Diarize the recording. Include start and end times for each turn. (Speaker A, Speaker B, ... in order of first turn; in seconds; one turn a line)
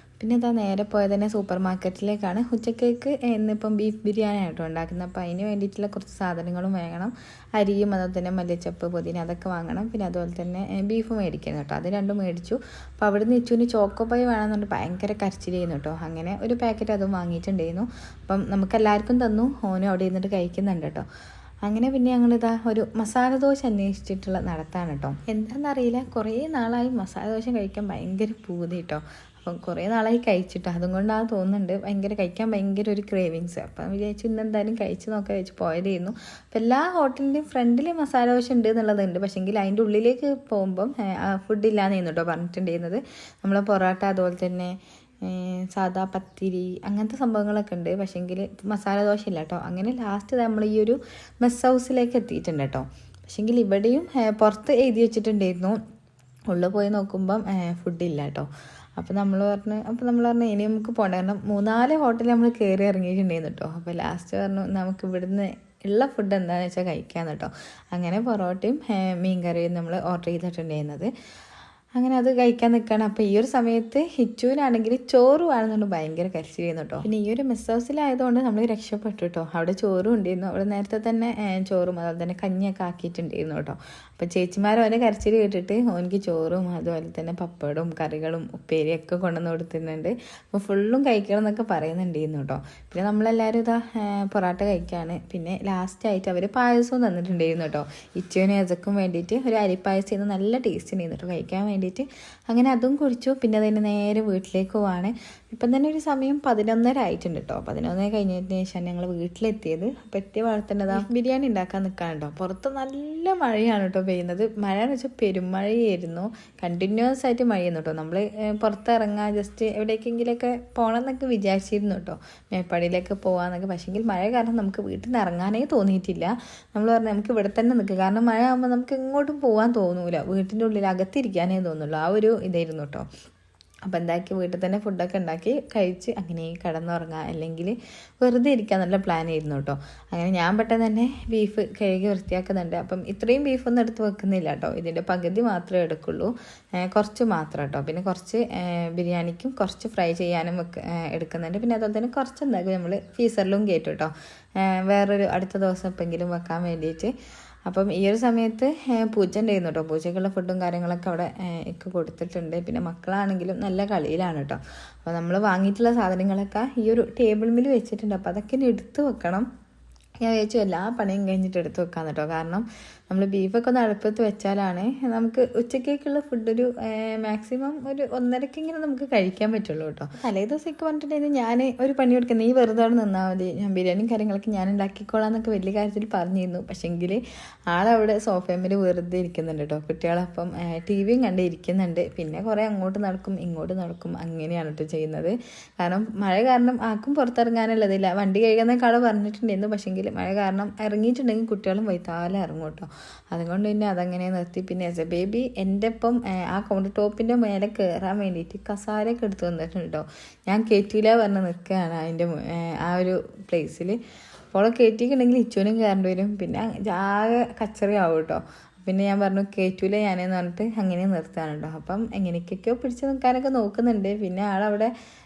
Speaker A: 0.2-21.1
Speaker A: 21.7-55.8
Speaker A: 56.5-71.1
Speaker A: 72.0-133.1
Speaker A: 133.9-157.1
Speaker A: 157.7-169.5
Speaker A: 170.2-214.0
Speaker A: 214.5-224.9